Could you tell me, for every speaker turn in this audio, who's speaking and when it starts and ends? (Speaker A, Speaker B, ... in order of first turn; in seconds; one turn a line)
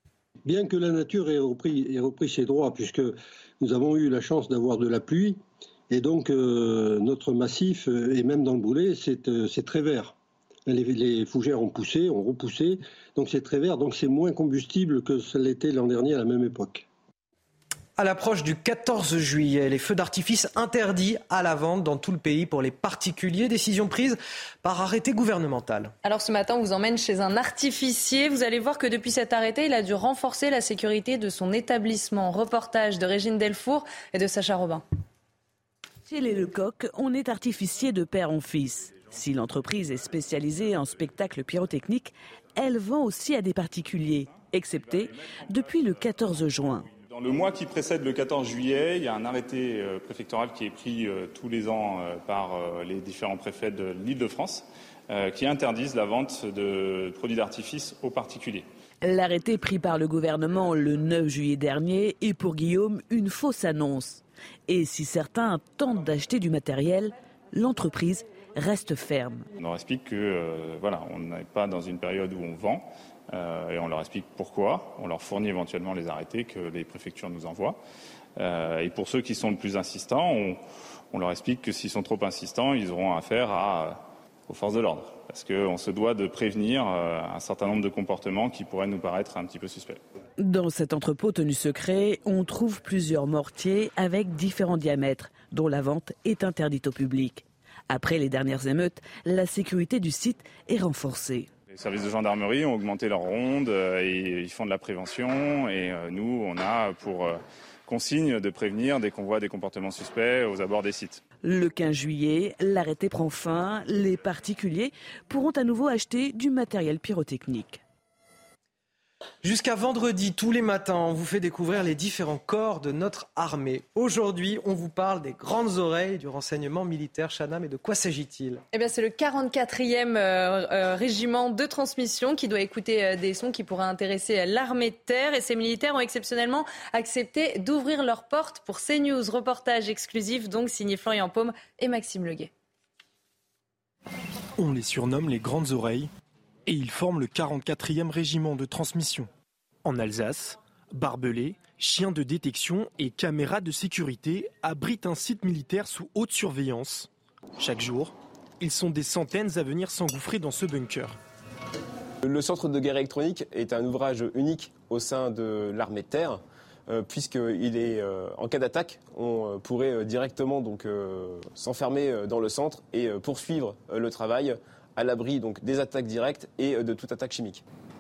Speaker A: 0.5-10.2
Speaker A: 10.7-16.9
Speaker B: 18.0-25.9
Speaker C: 26.0-34.8
Speaker D: 36.1-46.9
Speaker E: 47.0-58.7
Speaker D: 59.0-69.5
Speaker E: 69.6-77.8
Speaker E: 78.4-90.0
Speaker D: 90.4-101.5
Speaker E: 101.7-111.2
Speaker D: 111.4-117.8
Speaker B: 119.4-128.6
Speaker C: 128.7-142.5
Speaker F: 144.6-146.1
Speaker F: 146.7-149.3
Speaker F: 149.8-161.2
Speaker G: 162.2-177.6